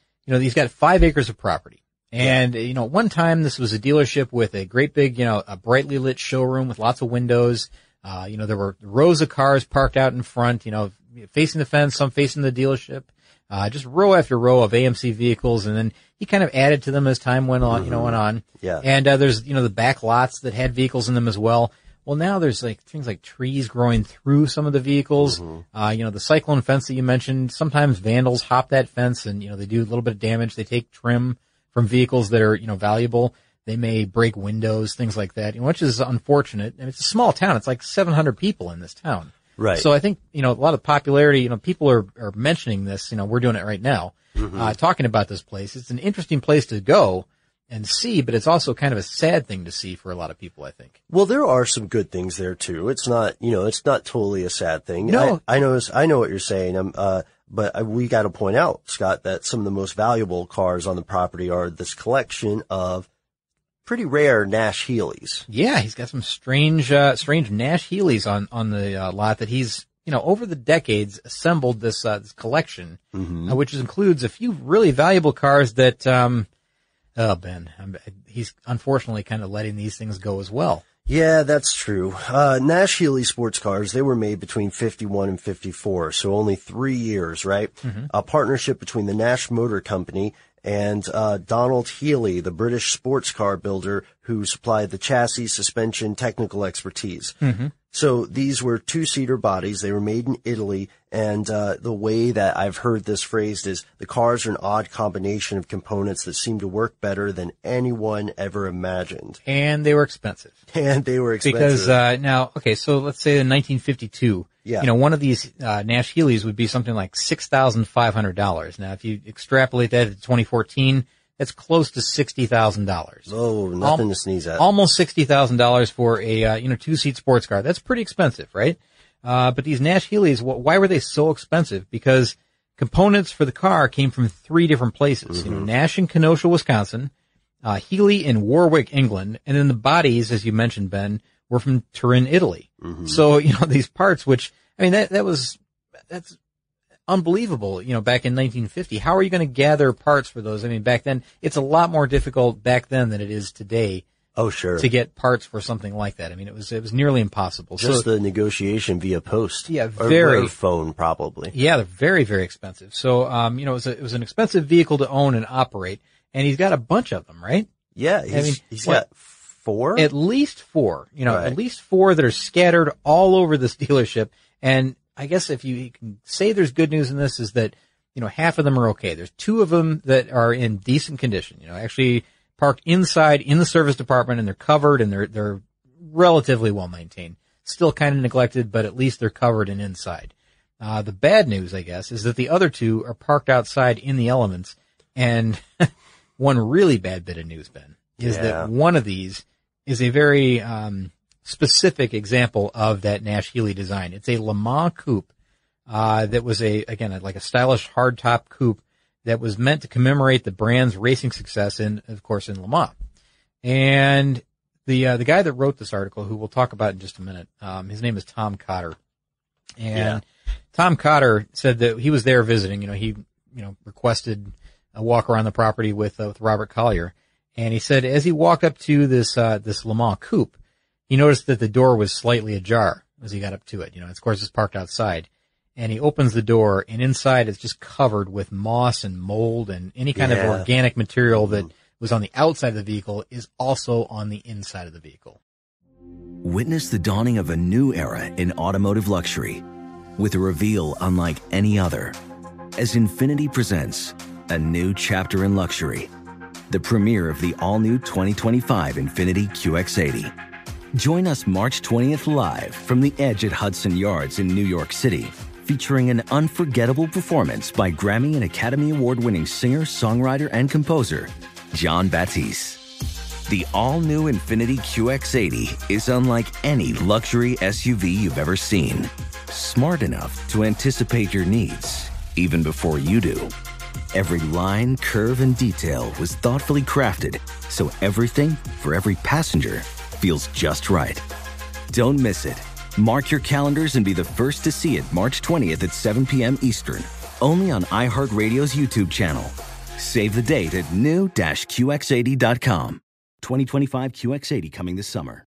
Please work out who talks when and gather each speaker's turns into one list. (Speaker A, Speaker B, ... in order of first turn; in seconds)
Speaker A: 0.3-50.9, 55.1-55.4, 65.5-76.5, 77.2-80.8, 87.8-88.1, 97.4-97.7, 109.5-110.5, 111.5-123.3, 124.6-137.1, 137.6-145.6, 146.1-146.4, 147.1-154.0, 154.8-158.1, 159.7-160.5, 161.5-167.7, 168.3-169.0, 170.0-205.3, 205.9-212.9, 213.6-219.0, 219.8-220.2, 220.7-230.5, 231.1-245.4
Speaker B: 17.7-18.9, 25.2-25.6, 39.6-39.9, 44.4-44.8, 51.1-63.1, 63.9-65.5, 73.1-73.6, 81.1-109.4, 110.7-112.0, 114.6-114.9, 123.3-124.7, 135.3-135.7, 142.8-143.2, 154.4-154.9, 157.8-161.5, 168.0-170.1, 171.3-171.6, 198.2-198.7, 219.9-220.2, 240.2-240.7, 241.4-241.7
Speaker C: 246.4-249.6, 250.2-252.2, 252.8-256.1, 256.7-260.3, 260.9-272.8, 273.5-283.5, 284.1-291.2, 291.9-305.4